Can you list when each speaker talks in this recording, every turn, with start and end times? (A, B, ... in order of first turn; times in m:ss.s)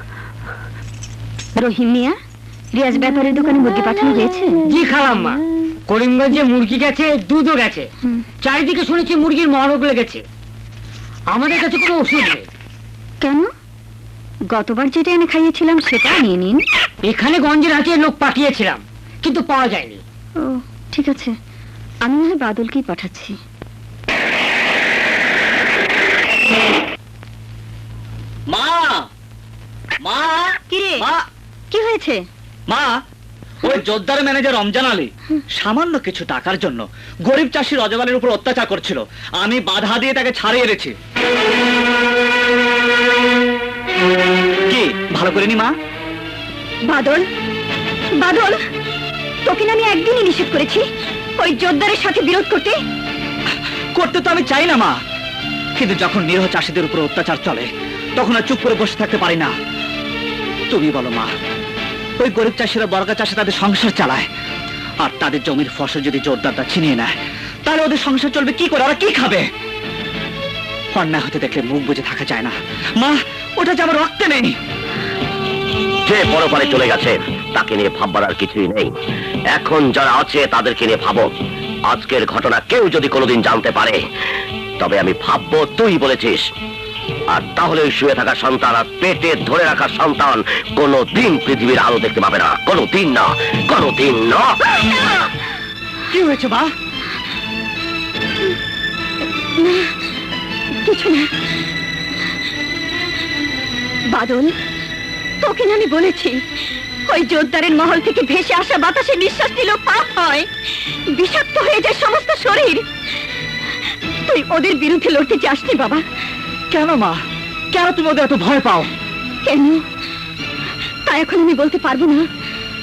0:01.6-0:02.1 A
0:02.8-0:04.5 A
0:04.7-0:07.9 B
0:08.4-0:10.2 B
0:11.3-0:12.5 B
0:14.5-0:16.6 A
0:17.0-0:20.0 B
0:20.4-0:21.3 A
0:22.0-0:23.3 A
0:28.5-0:29.0 C
0:30.0-0:31.2 C
0:30.7-0:31.0 A
0:31.7-0:32.2 A
0:33.6-0:41.0 C
0:44.7-0:45.7 C
0:46.9-0:47.2 A
0:48.2-0:48.6 A
0:49.4-0:50.8 A
0:51.4-0:52.8 A
0:54.0-0:55.0 C
0:55.8-0:59.5 C
1:00.7-1:01.3 C
1:02.2-1:04.3 C
1:05.0-1:07.1 C
1:07.7-1:09.5 C
1:10.9-1:14.6 C
1:16.1-1:18.9 D
1:19.6-1:21.3 D
1:21.9-1:24.0 D
1:24.8-1:26.4 D
1:27.3-1:34.6 D
1:36.1-1:36.7 C
1:39.6-1:39.9 A
1:40.8-1:41.3 A
1:44.1-1:44.5 A
1:45.4-1:46.4 A
1:47.1-1:52.8 A
1:54.3-1:56.0 A
1:56.7-1:57.2 C
1:57.7-1:58.9 C
1:59.4-1:59.8 A
2:01.0-2:02.2 A